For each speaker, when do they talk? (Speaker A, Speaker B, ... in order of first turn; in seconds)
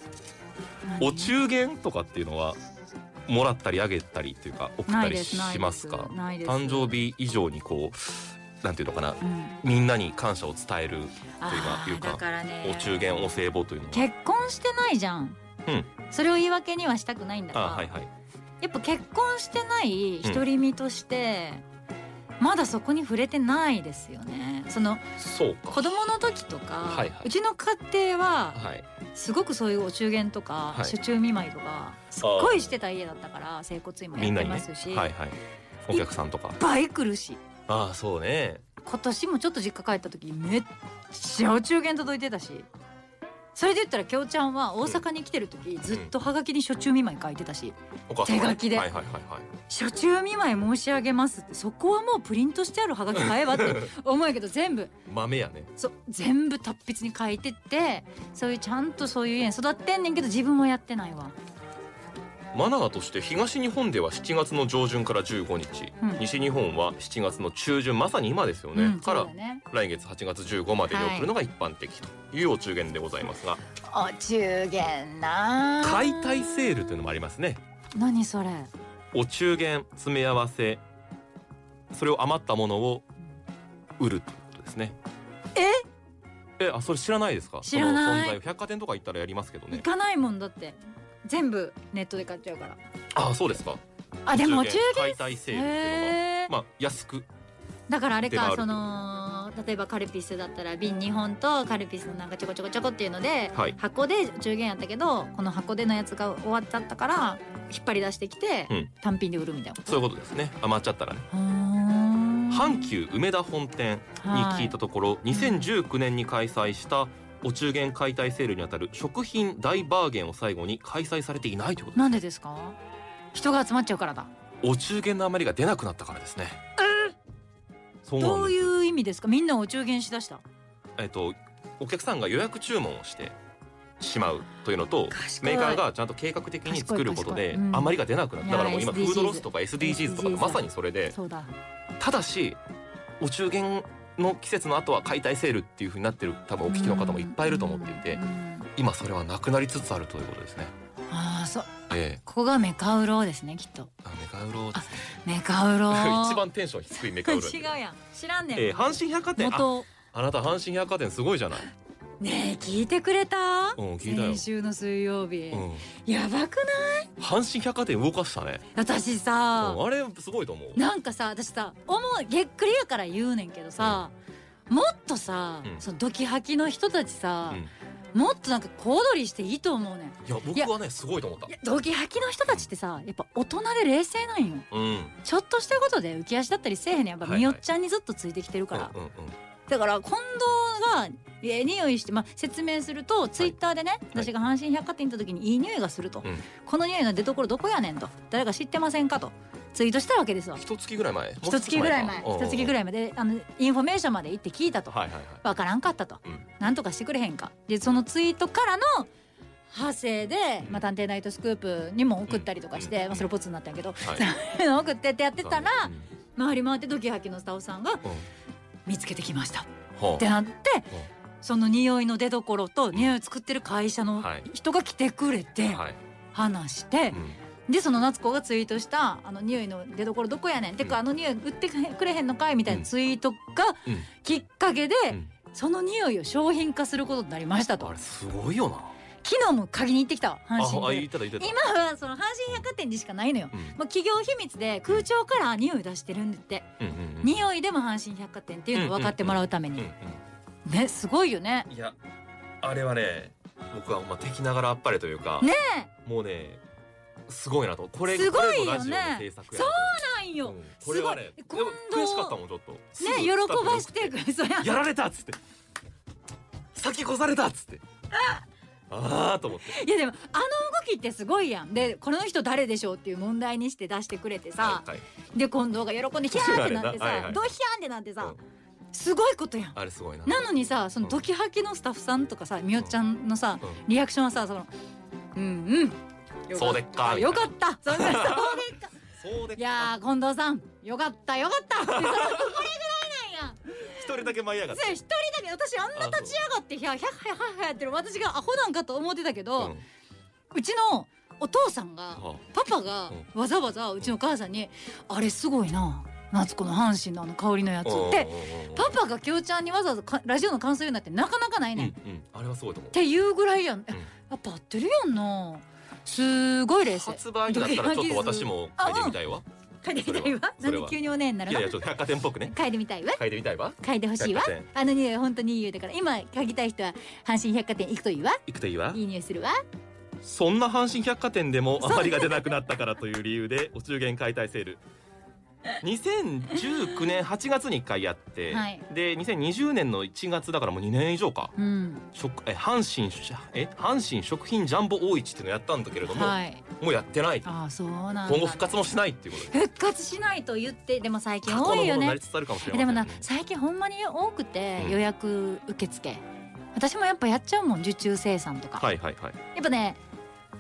Speaker A: 0.8-1.3, 4.9-7.0, 9.2-9.6, 11.4-13.2, 13.9-15.4, 16.1-17.9, 18.6-21.6, 22.4-25.2, 25.7-28.6, 29.1-35.1, 35.9-37.4, 38.9-42.7, 43.6-48.9, 49.7-54.9, 55.8-61.4, 68.7-69.6, 70.9-71.3, 73.8-76.6, 78.0-78.7, 85.5-85.8, 87.6-88.4, 89.7-92.8, 94.3-96.5, 97.9-110.0, 111.3-112.9, 114.2-114.8, 115.3-115.8, 122.0-122.8, 123.3-124.3, 126.8-127.1, 128.2-130.4, 135.1-135.8, 136.7-141.5, 146.7-148.7, 151.1-151.7, 152.2-153.9, 154.8-159.9, 162.2-167.1, 168.8-169.8, 170.8-174.1, 174.7-180.7, 181.5-184.7, 185.2-188.9, 189.7-200.6, 201.4-209.1, 209.7-218.0, 218.9-220.9, 221.4-225.8, 226.3-237.9, 239.2-246.7, 247.2-249.9, 250.7-251.7, 255.4-255.9, 258.1-262.4, 263.0-264.8, 268.1-268.4, 269.6-278.4, 278.9-284.7, 285.4-288.9, 289.6-299.8, 300.5-311.9, 312.9-319.2, 319.8-321.8, 322.5-323.2, 323.8-328.4, 328.9-329.6, 331.8-332.6, 336.6-337.1, 338.5-338.9, 341.6-342.1, 346.1-346.6, 347.4-348.8, 349.4-356.2, 356.8-358.9, 359.5-360.0
Speaker B: 1.0-2.6, 3.3-14.1, 15.7-15.9, 17.5-18.1, 25.2-26.0, 26.9-27.3, 28.5-28.9, 32.2-32.6, 34.2-35.4, 35.9-36.6, 37.7-38.6, 45.9-46.1, 48.1-49.5, 53.1-53.9, 55.1-55.7, 62.5-73.6, 75.8-77.6, 79.1-80.8, 81.9-83.1, 84.0-85.0, 86.6-89.9, 93.1-97.3, 98.3-99.0, 109.9-111.3, 112.5-122.2, 124.6-126.6, 128.0-128.7, 131.0-133.4, 134.0-141.2, 142.0-142.6, 143.2-148.2, 148.8-150.7, 151.9-152.2, 154.0-155.1, 155.9-157.8, 158.6-161.7, 163.8-164.4, 165.5-165.9, 167.2-168.6, 169.6-170.8, 173.8-174.0, 180.2-181.5, 184.7-185.2, 187.2-187.6, 188.7-189.4, 200.6-202.8, 204.9-205.4, 212.3-213.3, 214.0-214.3, 215.4-216.1, 220.0-220.2, 224.2-224.5, 225.7-226.0, 227.1-227.4, 237.8-238.9, 240.6-241.6, 243.5-243.8, 246.8-247.4, 248.7-250.2, 251.7-252.0, 252.6-255.5, 256.1-256.6, 257.3-265.4, 266.8-267.8, 268.9-269.8, 274.6-275.0, 276.3-277.5, 279.8-280.5, 286.5-288.6, 289.2-289.9, 291.9-292.6, 293.8-295.0, 295.9-296.4, 302.2-302.5, 307.8-309.0, 311.8-313.0, 316.8-319.4, 320.0-322.6, 323.1-324.7, 328.5-329.0, 330.2-334.8, 335.8-341.5, 342.1-347.5, 348.3-349.5, 351.5-353.3, 358.8-359.4